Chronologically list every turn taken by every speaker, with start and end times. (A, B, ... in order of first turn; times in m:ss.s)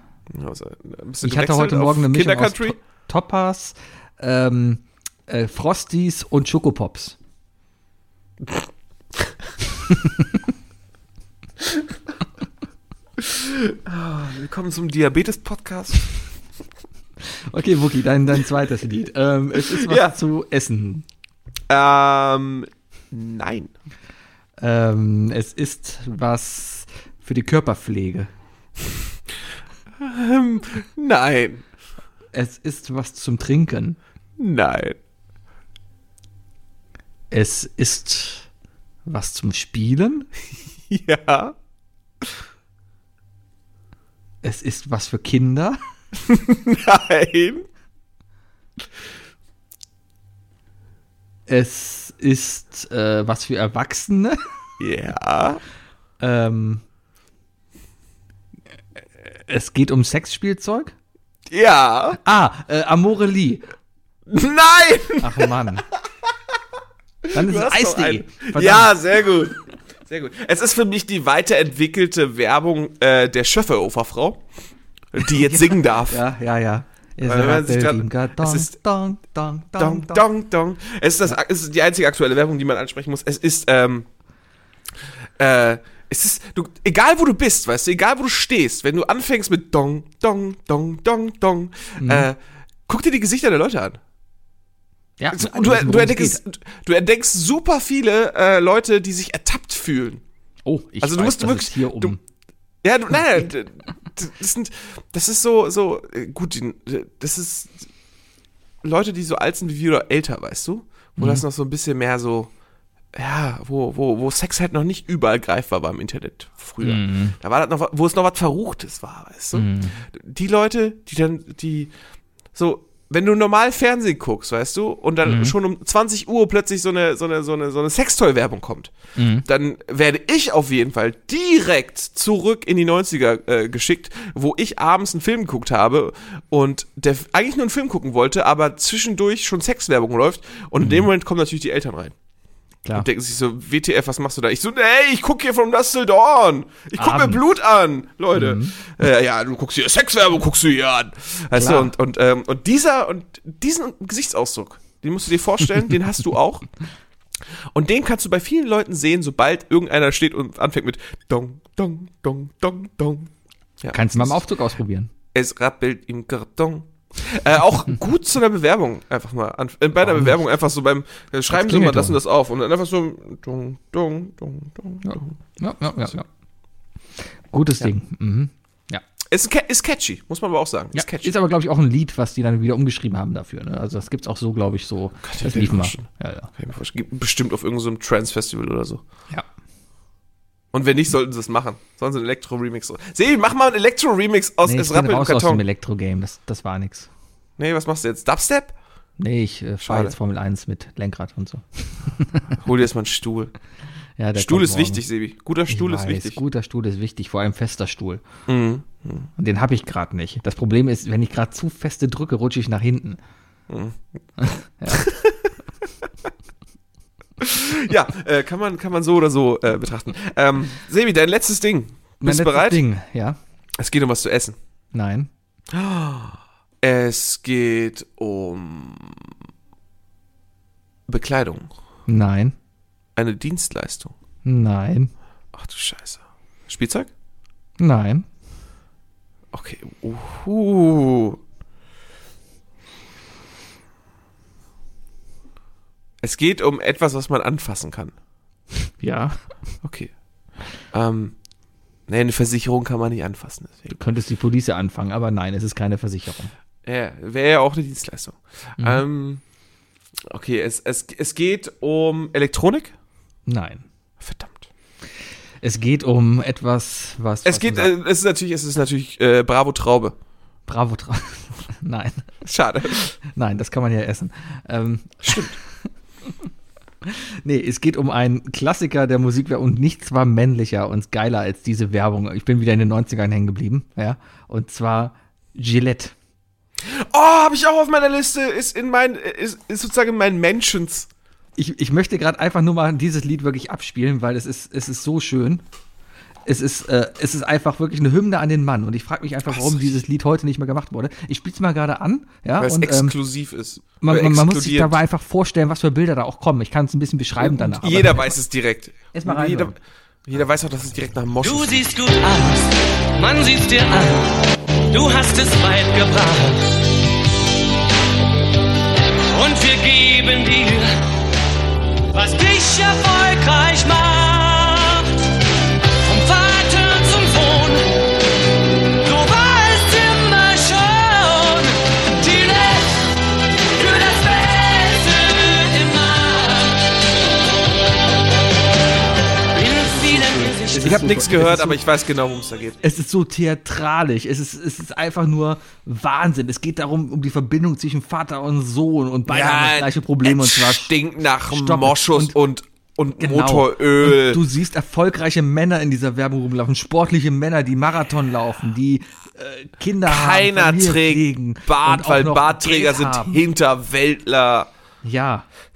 0:00.3-0:02.8 A
0:01.2-0:07.2 B
0:13.2-0:16.1 A
0:17.5-0:21.1 B
0:19.6-0:20.2 A
0:21.7-0:23.7 A
0:24.6-0:28.3 B
0:30.0-0:31.6 A
0:32.3-0:34.0 B
0:34.4-0:35.0 A
0:37.3-0:38.5 B
0:39.1-0:40.3 B
0:40.9-0:41.6 A
0:44.4-0:45.8 B
0:46.3-0:47.7 A
0:51.5-0:54.4 B
0:54.8-0:55.6 A
0:56.2-0:56.8 B
0:59.3-1:00.9 B
1:01.5-1:02.2 A
1:02.2-1:03.7 B
1:04.3-1:06.5 A
1:05.2-1:05.9 B
1:07.3-1:14.4 A
1:07.3-1:09.0 B
1:15.1-1:16.2 A
1:15.2-1:20.2 B
1:17.2-1:18.7 A
1:19.8-1:24.1 A
1:25.4-1:34.0 A
1:32.0-1:32.3 B
1:35.2-1:36.4 B
1:35.3-1:40.2 A
1:40.7-1:42.2 B
1:41.0-1:42.2 A
1:42.8-1:47.9 A
1:48.8-1:52.5 A
1:51.2-1:51.4 B
1:53.1-2:01.9 A
1:56.8-1:57.4 B
1:59.5-2:00.0 B
2:02.5-2:08.9 A
2:05.2-2:05.6 B
2:09.2-2:09.5 B
2:09.4-2:22.2 A
2:20.8-2:21.1 B
2:22.9-2:36.7 A
2:27.0-2:27.4 B
2:28.3-2:28.8 B
2:31.5-2:31.9 B
2:37.7-2:44.4 A
2:43.9-2:45.1 B
2:45.3-2:55.4 A
2:50.0-2:50.4 B
2:51.5-2:52.2 B
2:55.0-2:56.3 B
2:57.5-2:59.0 B
2:59.3-3:01.3 A
3:01.0-3:06.5 B
3:05.2-3:09.0 A
3:10.7-3:15.6 A
3:14.6-3:17.1 B
3:17.6-3:18.8 A
3:19.2-3:22.6 B
3:19.8-3:20.2 A
3:22.6-3:23.5 A
3:24.2-3:25.0 B
3:24.4-3:26.4 A
3:25.7-3:28.2 B
3:28.5-3:29.3 A
3:29.4-3:33.2 B
3:33.7-3:34.0 A
3:34.4-3:35.1 B
3:34.9-3:35.5 A
3:37.4-3:42.8 A
3:42.2-3:43.4 B
3:43.8-3:44.6 A
3:44.9-3:45.3 B
3:45.7-3:49.3 A
3:51.1-3:51.7 A
3:52.1-3:52.6 B
3:53.2-3:54.2 A
3:54.4-3:55.1 B
3:55.5-3:57.1 A
3:57.8-3:58.3 B
3:59.5-4:01.4 A
4:06.2-4:08.1 A
4:09.0-4:09.4 B
4:09.8-4:10.1 A
4:10.9-4:11.4 A
4:12.1-4:14.0 A
4:13.9-4:16.5 B
4:16.9-4:19.4 A
4:20.3-4:22.9 A
4:23.5-4:23.9 B
4:24.2-4:24.7 A
4:25.6-4:27.9 B
4:27.4-4:30.2 A
4:30.7-4:32.3 B
4:32.4-4:33.1 A
4:33.3-4:35.5 B
4:35.2-4:35.6 A
4:37.1-4:46.2 B
4:46.8-4:51.1 A
4:51.6-4:55.6 B
4:56.5-5:03.2 B
4:59.5-5:00.0 A
5:02.6-5:05.0 A
5:04.0-5:08.3 B
5:07.4-5:11.9 A
5:09.1-5:09.8 B
5:11.4-5:16.8 C
5:19.3-5:21.1 C
5:22.1-5:25.2 C
5:26.0-5:28.1 C
5:29.0-5:37.0 C
5:39.5-5:41.1 C
5:39.8-5:41.8 B
5:40.8-5:42.8 A
5:42.8-5:51.0 B
5:49.3-5:54.4 A
5:51.5-5:52.4 B
5:53.2-6:03.4 B
6:00.1-6:04.7 A
6:05.0-6:05.5 B